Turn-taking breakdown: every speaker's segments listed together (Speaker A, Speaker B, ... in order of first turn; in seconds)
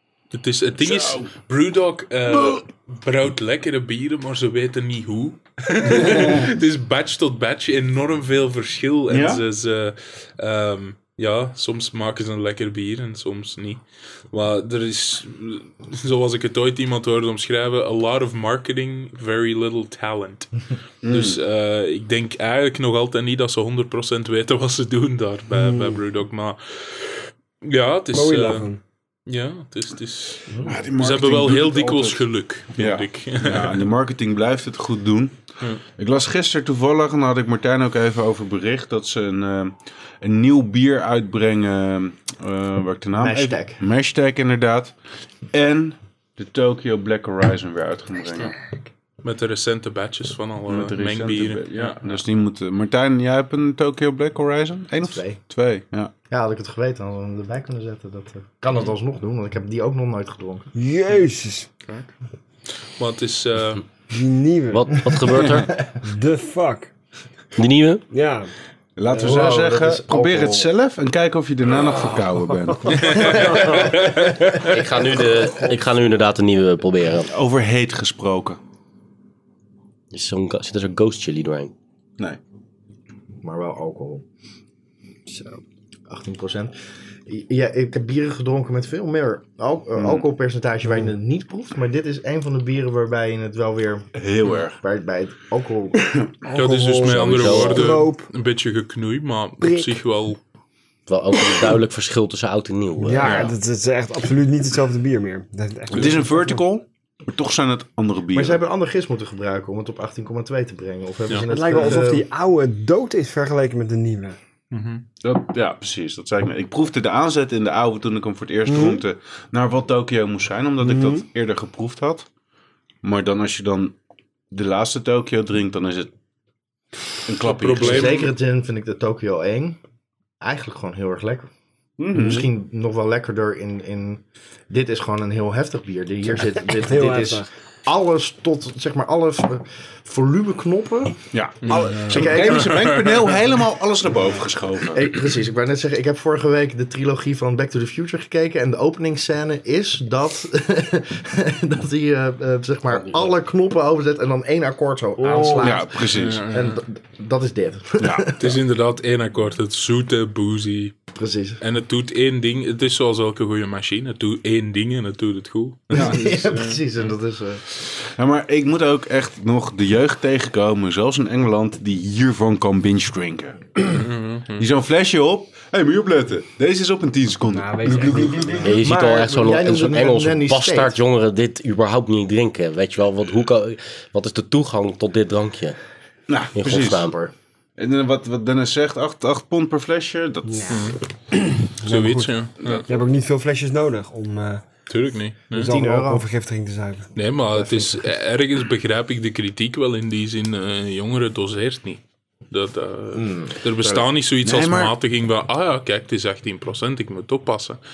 Speaker A: 0.3-28.7, 29.3-33.9, 49.2-52.2, 63.0-63.8, 72.9-74.6, 96.5-100.4, 114.7-115.0, 127.4-128.3, 141.6-143.4, 156.1-156.8, 158.4-161.0, 161.6-166.8, 173.9-174.7, 190.7-191.0, 191.8-192.8, 194.9-195.7, 197.2-207.8
Speaker B: 0.8-1.3, 2.3-2.6, 5.9-6.5, 9.1-9.4, 21.0-21.4, 30.6-32.2, 32.7-35.3, 36.0-44.9, 45.5-48.5, 50.7-56.1, 69.0-73.4, 77.3-78.6, 90.0-90.2, 94.2-94.8, 103.2-103.5, 105.9-108.6, 115.2-122.2, 123.0-124.0, 124.5-126.1, 127.3-128.2, 132.0-132.4, 141.3-145.1, 155.6-156.5, 158.0-158.3, 165.9-166.2, 168.2-174.0, 174.6-178.8, 186.3-187.1, 187.8-190.8, 192.6-192.8, 204.4-204.9
Speaker C: 25.5-26.0, 28.1-28.8, 60.7-61.7, 64.1-65.2, 66.0-66.9, 68.1-68.5, 69.1-69.5, 73.2-73.9, 85.3-85.6, 96.5-98.3, 99.6-100.0, 103.0-106.6, 111.5-114.4, 118.7-119.0, 120.8-121.2, 136.3-137.5, 155.2-155.8, 177.5-178.8, 190.5-194.6, 195.5-197.1
Speaker D: 43.2-43.8, 55.0-55.4, 56.3-60.7, 69.2-70.7, 83.4-84.2, 86.1-94.1, 94.8-96.1, 108.3-112.3, 127.8-129.8, 130.4-131.5, 132.1-142.8, 144.9-158.5, 161.1-161.6, 165.9-167.6, 178.8-181.0, 195.5-196.2, 197.5-198.0, 203.1-204.0
Speaker E: 64.7-65.8, 67.6-68.0, 74.6-77.3, 80.1-81.7, 97.0-98.0, 101.1-103.5, 178.6-185.8, 186.5-187.2